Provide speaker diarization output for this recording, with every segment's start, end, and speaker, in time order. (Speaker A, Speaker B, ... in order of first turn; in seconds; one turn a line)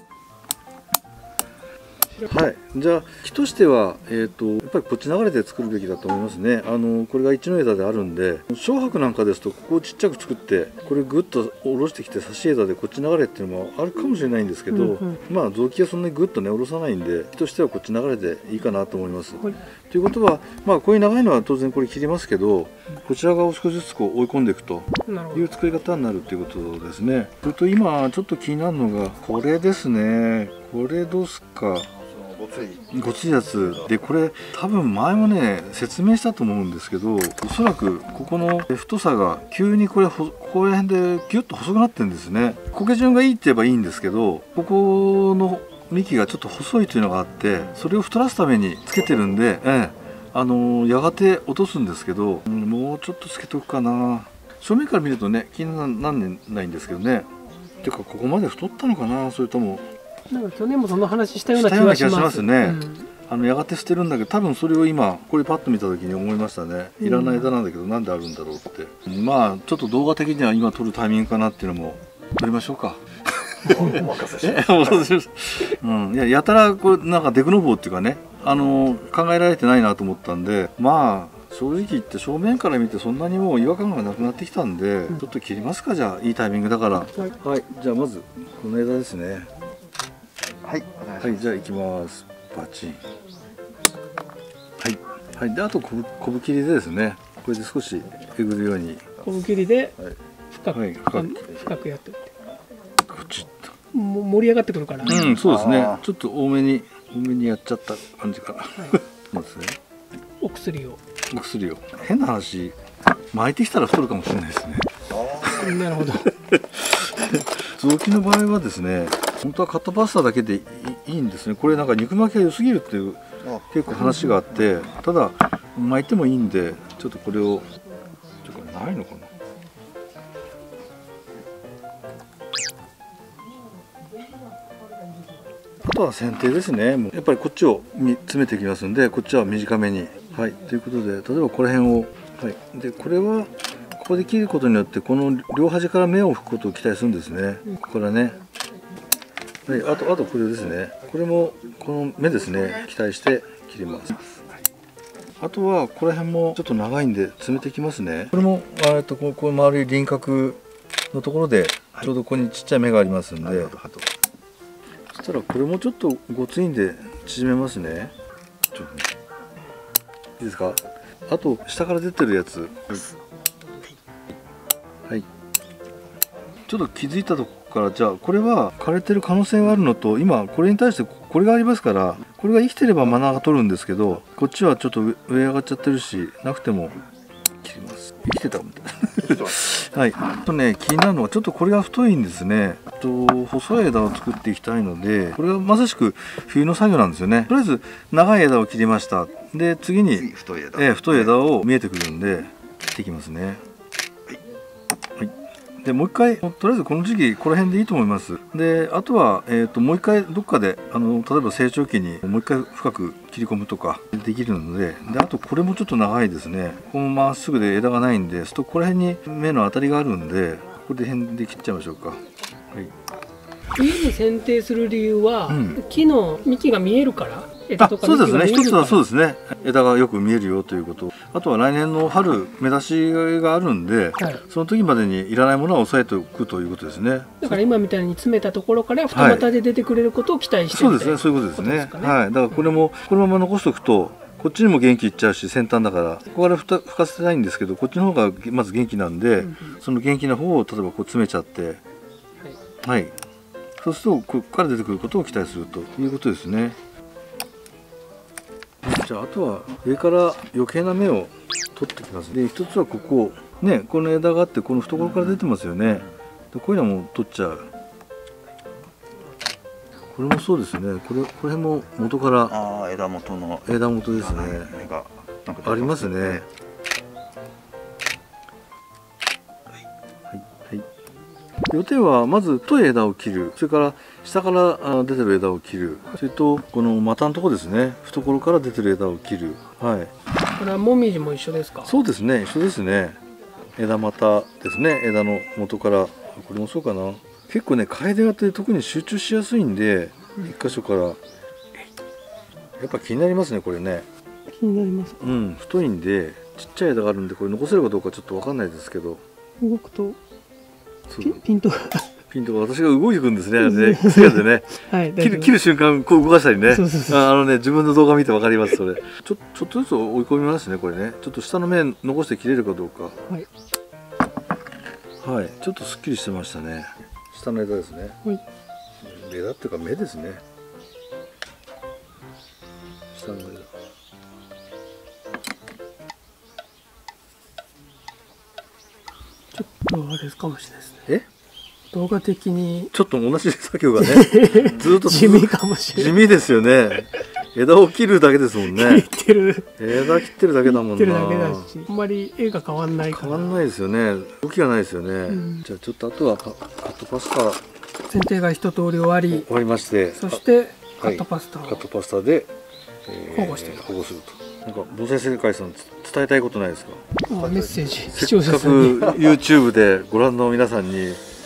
Speaker A: 2.3-31.9
Speaker B: 14.7-15.2
Speaker B: 25.1-25.5
Speaker C: 32.1-33.9
Speaker A: 32.9-57.3
Speaker A: 57.8-59.9
Speaker B: 60.3-63.1
Speaker A: 61.5-89.5
Speaker B: 67.0-67.5
Speaker C: 73.7-75.1
Speaker C: 90.6-91.4
Speaker A: 91.2-93.0
Speaker A: 94.8-99.1
Speaker B: 99.2-100.0
Speaker B: 100.5-102.3
Speaker A: 100.7-101.5
Speaker A: 103.1-103.7
Speaker B: 103.9-105.2
Speaker C: 105.0-106.0
Speaker A: 105.1-109.8
Speaker B: 110.4-111.0
Speaker A: 111.3-112.8
Speaker A: 113.3-114.9
Speaker C: 115.1-115.8
Speaker A: 115.5-127.7
Speaker B: 115.5-116.3
Speaker C: 123.4-123.8
Speaker B: 124.0-124.3
Speaker A: 128.4-129.3
Speaker A: 135.8-148.4
Speaker A: 149.7-154.2
Speaker A: 155.4-160.6
Speaker A: 161.1-163.8
Speaker C: 163.4-164.1
Speaker A: 165.1-168.1
Speaker A: 168.7-169.1
Speaker A: 170.4-173.1
Speaker A: 176.7-187.0
Speaker A: 187.6-203.6
Speaker C: 189.2-189.6
Speaker C: 200.1-201.3
Speaker A: 205.2-222.2
Speaker B: 223.8-229.0
Speaker A: 225.5-225.8
Speaker A: 227.8-237.6
Speaker B: 237.4-242.7
Speaker A: 239.1-239.5
Speaker A: 240.7-251.8
Speaker B: 249.4-249.8
Speaker A: 252.8-253.1
Speaker A: 253.8-256.8
Speaker A: 258.8-267.7
Speaker A: 270.1-272.6
Speaker C: 272.5-276.4
Speaker A: 273.7-274.8
Speaker A: 275.6-276.4
Speaker A: 280.3-280.9
Speaker A: 281.7-290.1
Speaker B: 290.6-291.9
Speaker A: 291.9-293.2
Speaker A: 293.8-301.2
Speaker A: 302.8-304.1
Speaker B: 304.5-305.3
Speaker A: 305.2-309.2
Speaker B: 309.6-310.2
Speaker A: 311.1-311.4
Speaker B: 311.2-312.1
Speaker A: 312.3-323.2
Speaker B: 313.6-315.6
Speaker B: 316.7-317.3
Speaker A: 325.2-328.2
Speaker A: 329.0-330.4
Speaker A: 333.1-333.7
Speaker B: 339.5-341.0
Speaker B: 341.9-342.9
Speaker A: 342.9-349.1
Speaker B: 344.0-346.2
Speaker B: 348.6-353.6
Speaker A: 349.8-351.7
Speaker A: 353.0-357.6
Speaker B: 355.3-355.6
Speaker B: 358.1-359.5
Speaker A: 359.3-360.4
Speaker B: 360.1-361.8
Speaker A: 361.0-362.5
Speaker A: 363.1-367.0
Speaker B: 363.3-363.9
Speaker B: 367.3-369.1
Speaker C: 367.4-368.0
Speaker A: 368.1-371.2
Speaker C: 369.0-369.3